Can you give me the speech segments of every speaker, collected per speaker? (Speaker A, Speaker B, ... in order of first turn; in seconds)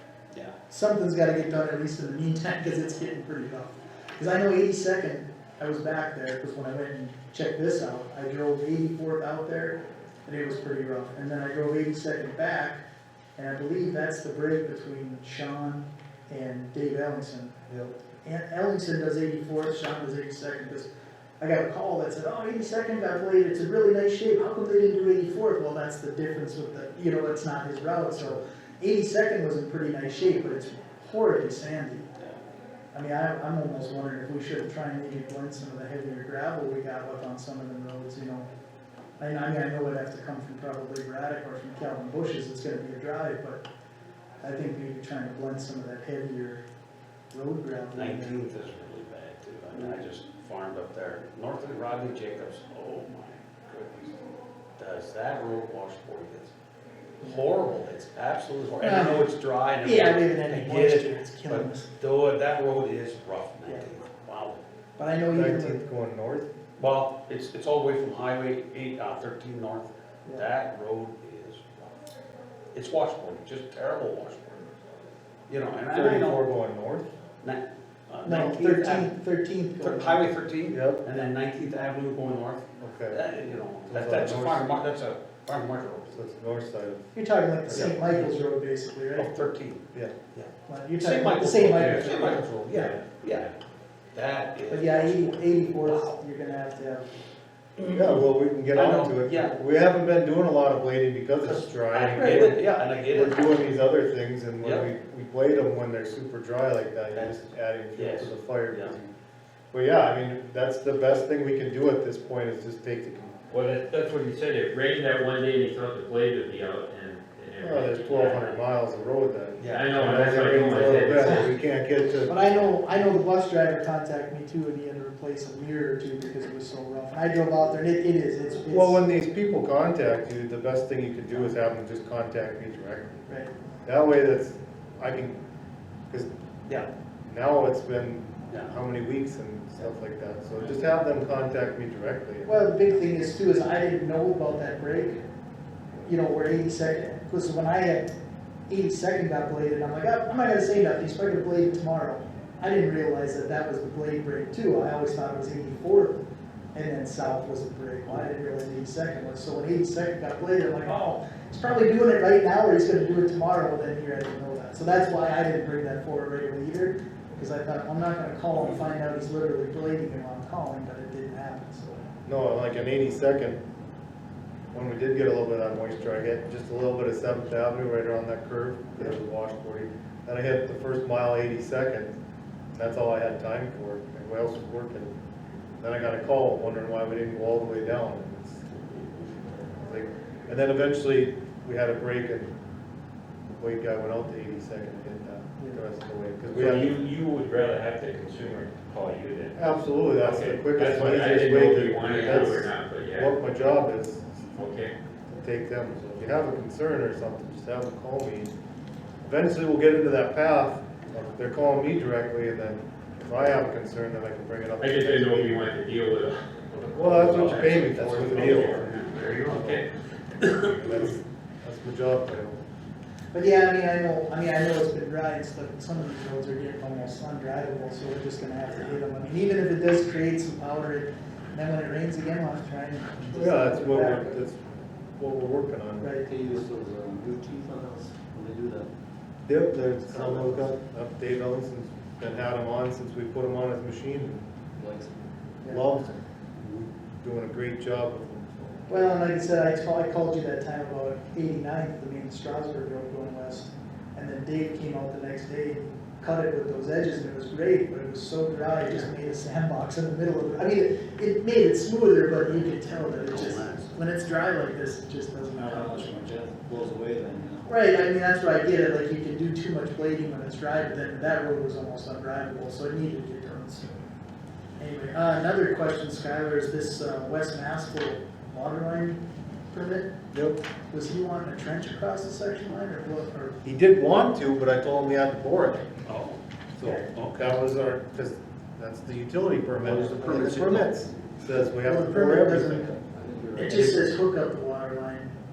Speaker A: 0.7-12.8, 13.4-32.1, 32.9-38.5, 39.2-43.6, 44.4-46.6, 47.3-48.4, 58.8-59.3, 59.8-61.9, 65.0-65.8, 78.2-80.3, 87.1-89.3, 90.7-92.9, 94.7-97.1, 121.0-121.5, 122.3-129.0, 142.5-145.2, 146.1-148.1, 148.7-156.2, 156.7-172.0, 223.3-234.4, 236.0-236.3, 245.6-245.9, 248.9-266.2, 267.6-273.9, 274.8-280.1, 280.9-283.6, 291.8-292.9, 293.6-295.3
Speaker B: 47.9-54.2, 54.8-56.5, 57.2-64.6, 66.8-72.0, 72.7-74.7, 75.5-76.5, 77.4-79.1, 79.8-86.2, 87.7-88.3, 89.2-93.5, 94.1-96.2, 97.8-99.6, 101.5-103.8, 104.6-104.9, 107.1-107.4, 108.0-109.0, 119.6-119.9, 202.0-202.6, 217.2-219.8, 220.4-220.8, 263.2-264.0, 286.1-286.4, 287.1-287.6, 289.8-291.0
Speaker C: 65.3-66.5, 75.9-77.1, 80.7-81.0, 82.8-83.2, 83.9-84.7, 86.1-87.1, 87.7-87.9, 97.9-109.1, 109.7-113.4, 117.6-122.5, 128.7-133.2, 133.8-135.4, 137.3-142.6, 172.3-173.6, 174.7-182.1, 182.7-185.1, 185.8-192.5, 193.6-197.0, 199.6-204.5, 205.4-208.5, 209.2-215.7, 216.9-219.9, 220.6-222.6, 233.3-234.6, 235.2-236.1, 239.5-244.4, 245.7-248.9, 280.3-280.6, 283.6-285.8, 286.8-293.0
Speaker D: 113.5-118.6, 119.7-121.5, 196.5-199.6, 200.2-203.4, 204.6-204.9, 214.8-219.9
Speaker E: 236.2-238.9, 240.0-240.7, 244.8-245.1, 265.5-267.6, 293.0-294.2